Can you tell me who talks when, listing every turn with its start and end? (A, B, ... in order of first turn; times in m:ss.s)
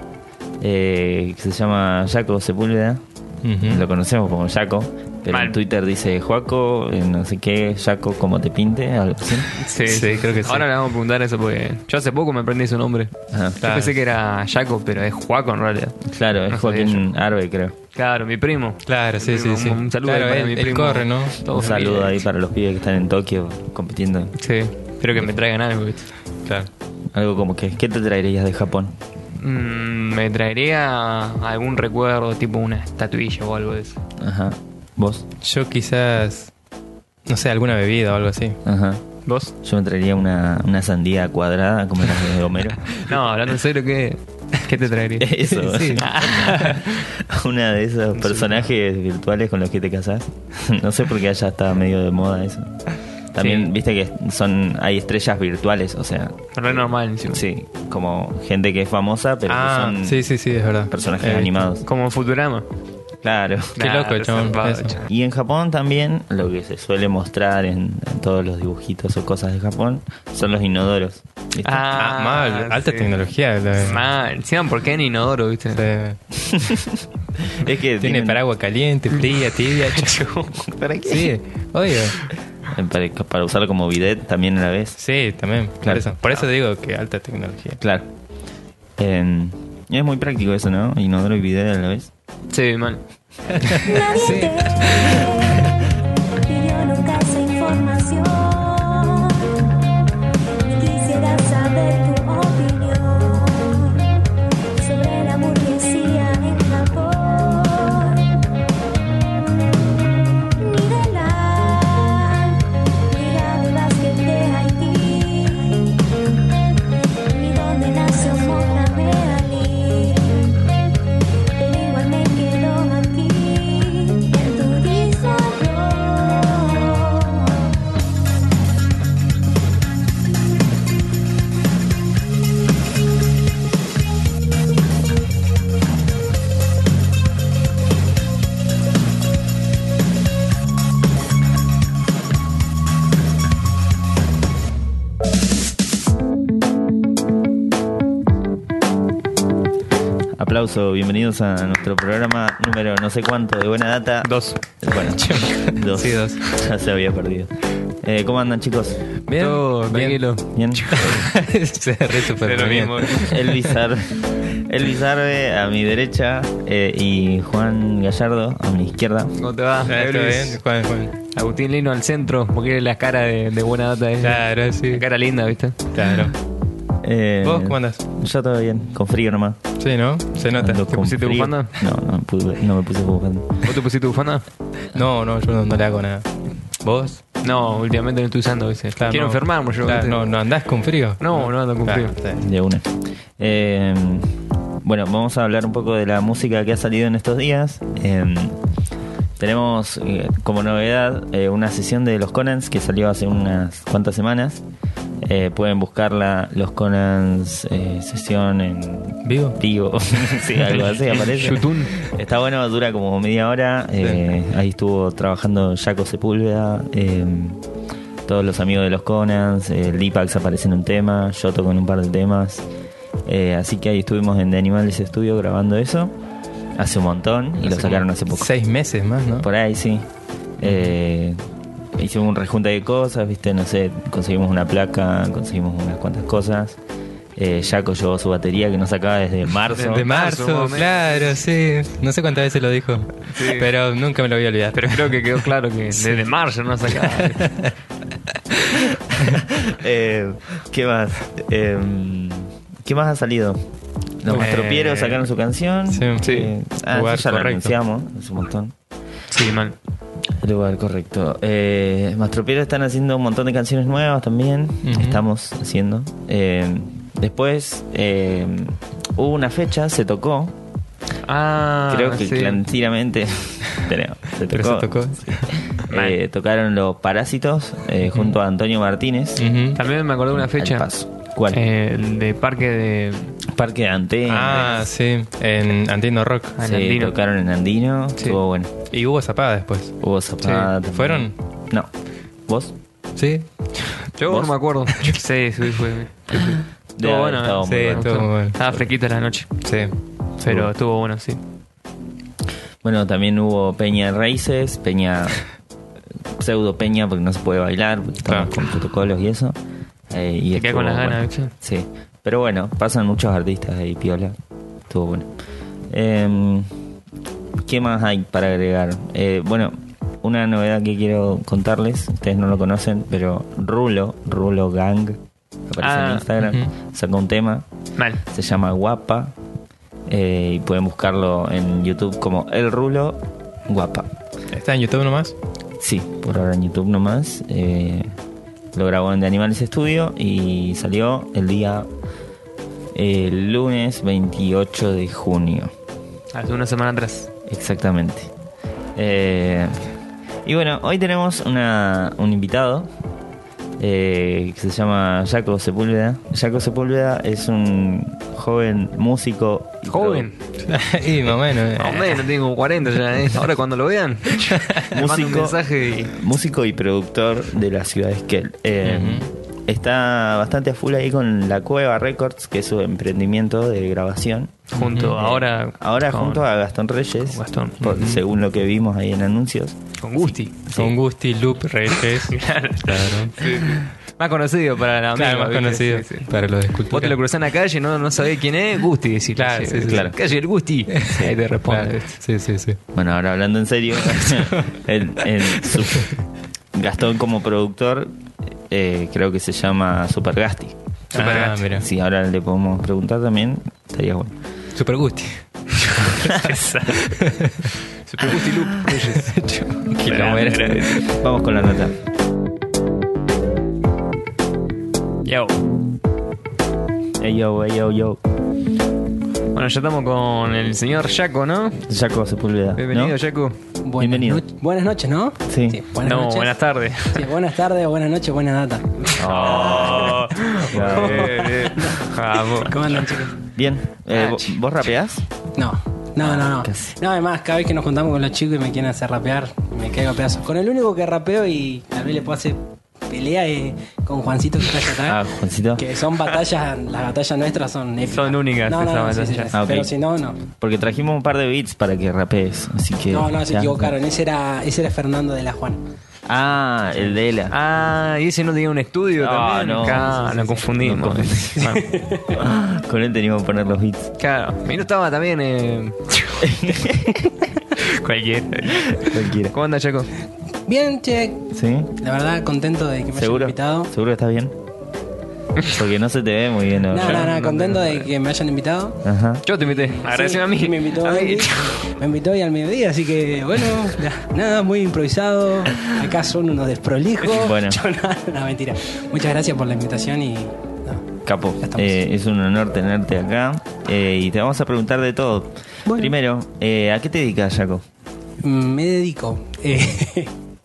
0:00.6-0:03.0 A
0:03.4-0:03.8 B
0:03.6-0:09.5 A
0:05.3-0:05.6 C
0:09.6-0:17.0 C
0:09.8-0:10.7 B
0:13.3-0:13.6 A
0:13.6-0:14.0 B
0:16.0-0:17.8 A
0:18.0-0:22.2 C
0:18.9-0:21.4 B
0:21.5-0:24.4 A
0:24.4-0:26.1 C
0:27.1-0:29.0 A
0:29.4-0:34.0 C
0:34.2-0:35.2 A
0:35.4-0:36.5 B
0:37.3-0:38.6 B
0:38.6-0:39.0 A
0:39.3-0:39.5 C
0:39.6-0:43.0 A
0:42.9-0:45.4 C
0:45.2-1:00.2 A
0:45.5-0:46.0 B
0:46.0-0:46.9 C
0:48.2-0:48.6 C
0:53.4-0:53.7 C
0:56.5-0:57.4 C
0:59.5-1:01.6 B
1:00.9-1:01.8 A
1:01.8-1:02.7 C
1:03.2-1:03.8 A
1:03.8-1:05.0 C
1:03.8-1:05.0 B
1:05.0-1:11.9 A
1:11.6-1:13.2 C
1:12.0-1:14.0 B
1:13.8-1:15.8 C
1:15.7-1:16.2 B
1:16.4-1:18.4 A
1:18.0-1:20.3 B
1:19.1-1:20.7 C
1:20.7-1:21.3 A
1:21.0-1:22.2 B
1:22.7-1:25.0 A
1:25.0-1:27.8 B
1:25.8-1:26.1 A
1:27.8-1:28.1 A
1:29.0-1:32.1 A
1:32.5-1:33.0 C
1:33.6-1:35.7 B
1:33.8-1:35.8 D
1:36.4-1:39.7 D
1:40.6-1:44.1 D
1:44.8-1:48.3 D
1:50.5-1:56.0 D
1:57.3-2:00.6 D
2:01.6-2:07.9 D
2:30.4-2:37.5 A
2:34.2-2:34.6 C
2:35.0-2:36.4 B
2:38.0-2:39.0 A
2:39.3-2:43.8 B
2:39.4-2:41.2 C
2:40.5-2:41.0 A
2:42.3-2:43.3 C
2:43.2-2:49.3 A
2:49.4-2:50.6 C
2:49.8-2:51.1 B
2:51.3-2:55.9 C
2:54.2-2:55.0 B
2:55.9-2:56.4 B
2:57.0-2:59.6 A
2:57.4-2:58.0 B
2:59.8-3:00.9 B
3:00.6-3:03.5 A
3:00.9-3:01.8 C
3:03.6-3:04.4 C
3:04.9-3:07.2 B
3:07.4-3:10.2 C
3:09.0-3:12.4 B
3:11.2-3:12.2 C
3:12.4-3:18.6 A
3:19.4-3:24.6 A
3:25.2-3:37.6 A
3:29.2-3:29.6 B
3:30.8-3:32.0 C
3:38.3-3:42.6 A
3:43.2-3:46.1 A
3:46.8-3:48.5 A
3:47.6-3:49.5 B
3:49.4-3:50.1 A
3:50.6-3:51.4 A
3:50.6-3:50.9 B
3:52.0-3:56.8 A
3:57.4-4:00.1 A
3:59.8-4:01.4 C
3:59.9-4:05.4 B
4:03.3-4:03.7 C
4:04.7-4:07.6 C
4:07.0-4:07.7 B
4:08.7-4:09.4 B
4:09.2-4:13.6 A
4:14.2-4:18.7 A
4:14.3-4:14.8 B
4:14.3-4:15.2 C
4:15.9-4:17.8 B
4:16.2-4:16.5 C
4:19.3-4:19.8 C
4:20.4-4:30.6 A
4:24.8-4:25.2 B
4:31.2-4:32.6 C
4:31.9-4:39.5 A
4:34.5-4:35.6 B
4:35.9-4:36.2 C
4:39.4-4:39.8 B
4:39.8-4:40.9 C
4:40.4-4:41.6 A
4:41.5-4:43.3 C
4:43.5-4:44.8 A
4:44.3-4:46.6 B
4:46.6-4:47.2 C
4:46.6-4:48.7 A
4:48.9-4:50.0 B
4:50.0-4:51.9 A
4:50.4-4:50.7 C
4:50.8-4:51.3 B
4:52.5-4:52.7 A
4:53.2-4:54.1 B
4:54.2-4:59.6 C
4:54.3-4:54.5 A
4:57.0-4:58.8 A
4:57.6-4:58.6 B
4:59.6-4:59.9 B
5:00.4-5:01.4 C
5:02.8-5:05.4 A
5:06.4-5:09.6 A
5:08.3-5:08.5 B
5:10.1-5:14.4 A
5:10.6-5:11.5 C
5:14.9-5:15.3 A
5:15.9-5:16.7 A
5:17.6-5:27.6 A
5:25.8-5:26.3 C
5:26.4-5:26.7 B
5:28.0-5:28.2 C
5:28.3-5:29.4 A
5:30.1-5:34.1 A
5:34.5-5:35.3 B
5:35.8-5:38.1 A
5:38.7-5:41.9 A
5:42.9-5:45.7 A
5:46.3-5:47.3 C
5:47.5-5:48.3 A
5:49.0-5:49.9 A
5:50.4-5:52.9 A
5:53.8-6:00.3 A
5:59.9-6:00.3 C
6:00.6-6:02.2 B
6:01.7-6:06.2 C
6:04.9-6:21.0 A
6:08.8-6:09.3 B
6:14.7-6:16.4 C
6:14.8-6:15.2 B
6:17.3-6:17.8 C
6:17.8-6:18.2 B
6:20.0-6:20.5 C
6:20.7-6:23.5 B
6:22.2-6:26.3 C
6:25.2-6:27.2 B
6:26.9-6:32.2 C
6:29.4-6:30.1 B
6:29.9-6:30.2 A
6:30.9-6:32.8 B
6:31.1-6:31.4 A
6:32.9-6:36.2 A
6:36.7-6:38.1 A
6:38.7-6:44.3 A
6:41.1-6:41.6 C
6:41.1-6:41.9 B
6:44.8-6:45.4 B
6:45.8-6:47.2 C
6:47.1-6:51.0 B
6:48.2-6:49.3 C
6:49.9-6:52.0 A
6:50.1-6:51.1 C
6:55.2-6:55.6 C
6:57.2-6:58.2 A
6:59.5-7:01.8 C
7:01.9-7:03.2 A
7:02.8-7:03.6 C
7:03.8-7:06.6 E
7:04.0-7:04.4 A
7:05.5-7:05.8 A
7:06.0-7:07.3 C
7:07.1-7:13.4 E
7:09.2-7:11.5 A
7:09.2-7:13.1 C
7:13.5-7:15.2 A
7:14.1-7:14.5 C
7:15.6-7:25.2 E
7:16.2-7:16.9 A
7:25.0-7:25.8 A
7:25.8-7:30.4 E
7:28.1-7:29.5 C
7:29.5-7:29.9 A
7:30.6-7:33.9 A
7:33.1-7:35.8 E
7:36.3-7:37.5 A
7:37.5-7:41.8 C
7:39.2-7:40.1 A
7:40.0-7:40.6 E
7:40.8-7:41.6 A
7:41.6-7:42.4 E
7:42.3-7:44.1 A
7:44.2-7:46.7 C
7:46.4-7:47.2 A
7:47.8-7:50.1 C
7:49.0-7:49.5 A
7:50.7-7:51.4 E
7:51.5-7:51.9 A
7:52.0-7:53.9 E
7:53.2-7:54.6 A
7:55.6-7:57.3 A
7:56.9-7:59.0 E
7:57.0-7:58.1 C
7:59.0-7:59.4 A
7:59.4-8:01.8 C
7:59.6-8:11.1 E
8:07.3-8:07.8 A
8:11.2-8:17.8 A
8:11.6-8:12.0 E
8:15.9-8:16.1 E
8:18.4-8:20.3 E